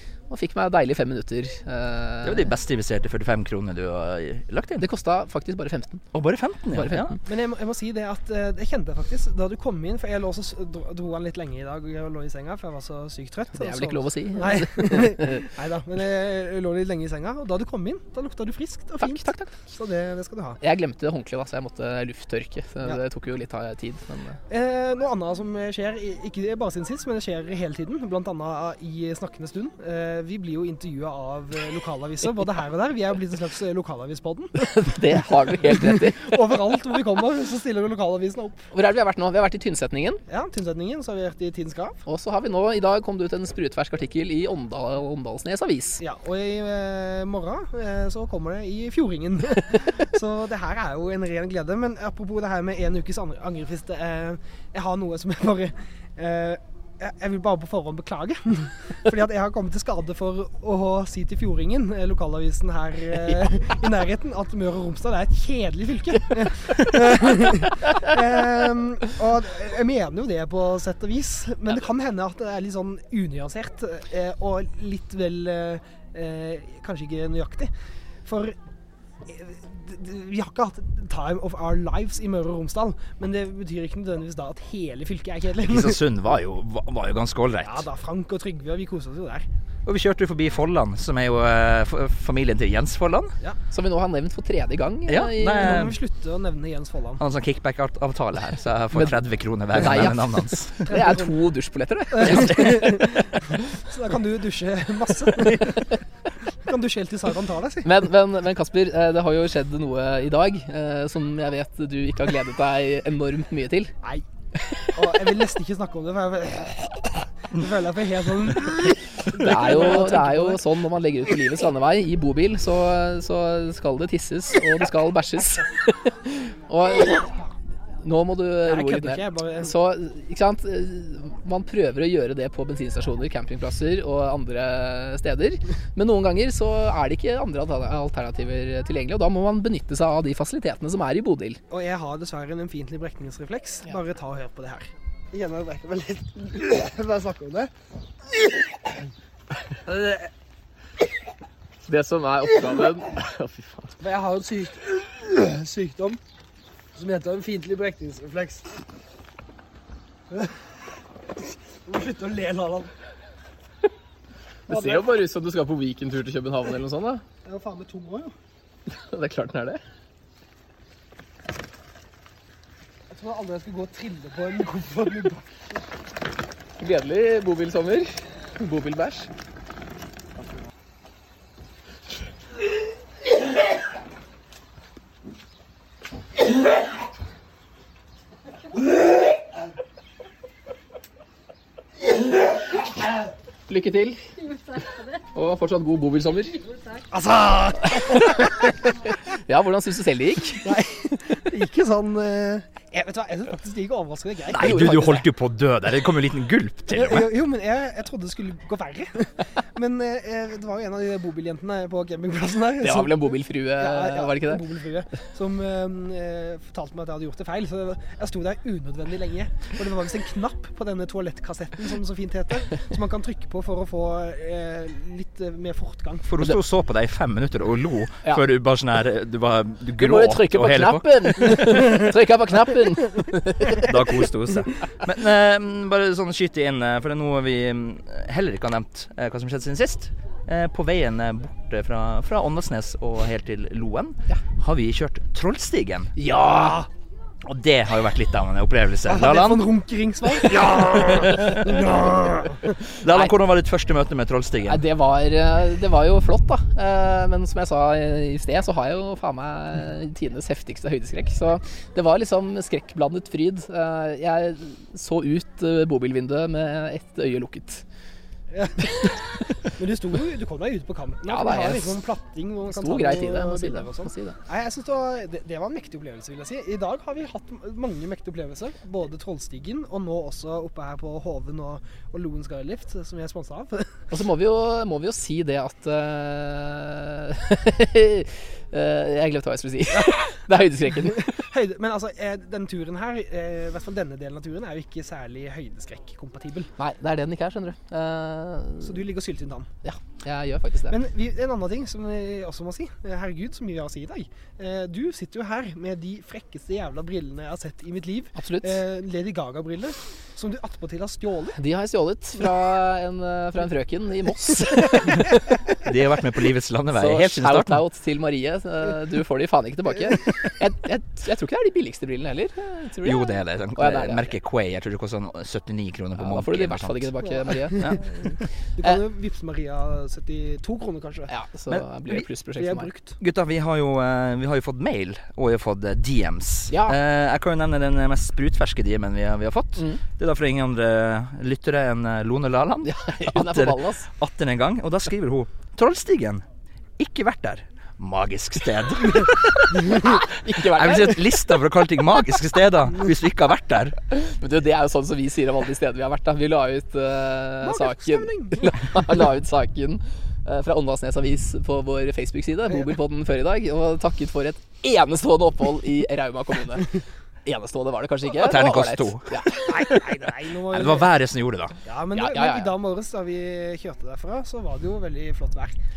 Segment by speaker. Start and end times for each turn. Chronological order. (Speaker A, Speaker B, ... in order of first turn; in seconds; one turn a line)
Speaker A: 0.3-2.5
Speaker B: 2.2-4.9
Speaker A: 4.8-6.0
Speaker B: 6.1-7.2
Speaker A: 6.7-7.2
Speaker C: 7.2-20.6
Speaker A: 13.5-15.5
Speaker A: 19.0-19.6
Speaker A: 20.6-24.4
Speaker C: 24.5-34.7
Speaker A: 34.6-36.4
Speaker C: 35.8-38.6
Speaker A: 38.7-40.2
Speaker C: 40.3-42.0
Speaker A: 42.0-46.0
Speaker C: 46.0-77.7
Speaker C: 78.2-78.5
Speaker C: 79.3-86.0
Speaker B: 85.6-87.9
Speaker C: 87.6-89.5
Speaker B: 89.8-93.3
Speaker A: 93.7-95.8
Speaker B: 95.1-96.0
Speaker C: 95.5-97.2
Speaker B: 97.2-100.9
Speaker A: 99.8-103.4
Speaker C: 100.9-101.3
Speaker C: 102.1-106.0
Speaker B: 102.2-102.7
Speaker C: 106.6-107.9
Speaker A: 107.8-113.9
Speaker C: 114.9-120.6
Speaker A: 119.2-127.3
Speaker A: 128.0-141.6
Speaker C: 128.7-129.7
Speaker C: 141.7-147.7
Speaker C: 149.9-150.2
Speaker A: 151.8-154.0
Speaker C: 154.0-156.2
Speaker C: 156.9-158.7
Speaker C: 160.3-160.6
Speaker C: 161.8-162.9
Speaker C: 164.7-165.1
Speaker A: 164.7-167.2
Speaker C: 167.4-168.3
Speaker A: 168.9-169.8
Speaker C: 173.1-175.5
Speaker A: 176.8-179.3
Speaker A: 193.7-196.7
Speaker C: 197.1-198.7
Speaker A: 198.1-200.7
Speaker C: 200.6-204.9
Speaker A: 204.5-205.2
Speaker B: 204.5-207.3
Speaker C: 206.9-226.4
Speaker A: 212.8-214.6
Speaker B: 226.2-231.6
Speaker A: 230.0-233.9
Speaker B: 233.8-246.1
Speaker A: 246.2-246.9
Speaker C: 246.4-246.9
Speaker B: 247.4-249.7
Speaker C: 249.1-252.8
Speaker B: 250.5-251.6
Speaker B: 253.0-254.8
Speaker A: 253.1-253.3
Speaker A: 254.6-267.8
Speaker C: 268.5-269.1
Speaker C: 269.8-284.1
Speaker A: 271.3-272.0
Speaker A: 272.6-274.4
Speaker A: 284.1-291.4
Speaker C: 289.9-290.5
Speaker C: 291.1-296.7
Speaker A: 296.8-299.0
Speaker C: 298.8-299.7
Speaker A: 299.8-301.0
Speaker C: 300.9-311.6
Speaker A: 308.4-308.8
Speaker A: 311.6-315.6
Speaker B: 315.8-317.8
Speaker A: 316.9-324.4
Speaker B: 323.0-327.1
Speaker A: 326.1-329.0
Speaker C: 327.2-331.3
Speaker A: 331.3-332.9
Speaker B: 331.7-332.2
Speaker C: 332.6-333.1
Speaker B: 333.2-346.4
Speaker A: 336.7-337.0
Speaker A: 342.8-344.1
Speaker B: 347.0-354.0
Speaker A: 349.7-351.3
Speaker A: 354.1-369.9
Speaker C: 357.6-358.8
Speaker B: 368.3-369.4
Speaker C: 369.6-371.1
Speaker B: 370.7-371.7
Speaker C: 371.8-375.8
Speaker A: 372.1-372.7